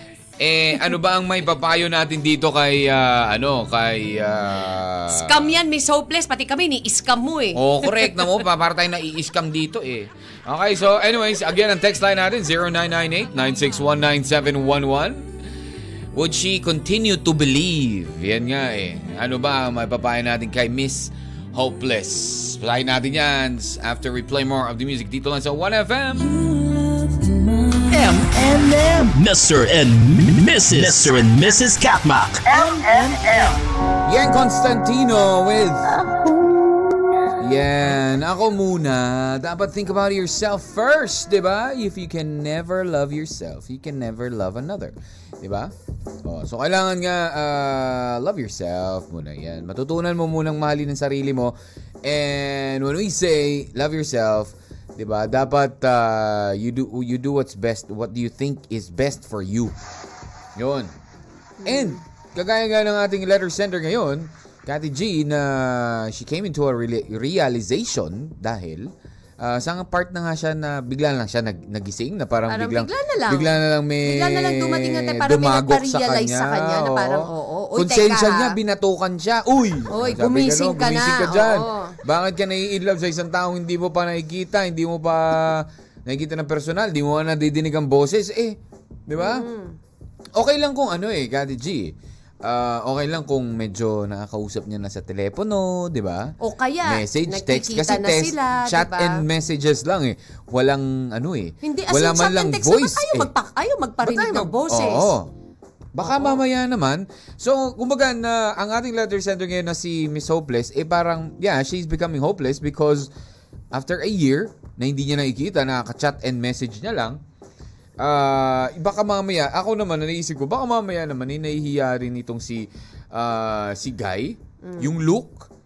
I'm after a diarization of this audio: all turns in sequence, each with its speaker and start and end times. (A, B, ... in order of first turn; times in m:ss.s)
0:00.4-0:05.5 A
0:05.1-0:08.4 B
0:07.5-0:15.3 A
0:16.1-0:26.5 A
0:27.9-0:33.6 C
0:34.0-0:36.0 A
0:37.4-0:45.7 A
0:46.2-0:59.7 A
1:00.6-1:00.9 A
1:01.6-1:02.0 B
1:01.6-1:29.5 A
1:12.5-1:13.5 B
1:14.0-1:18.6 B
1:19.9-1:22.0 B
1:29.2-1:29.8 B
1:30.3-1:36.3 A
1:36.4-1:39.2 B
1:36.8-1:43.3 A
1:41.6-1:45.1 B
1:44.0-1:45.3 A
1:45.9-1:53.1 A
1:46.0-1:46.4 B
1:53.7-1:57.2 A
1:58.0-2:05.5 A
2:04.6-2:04.9 B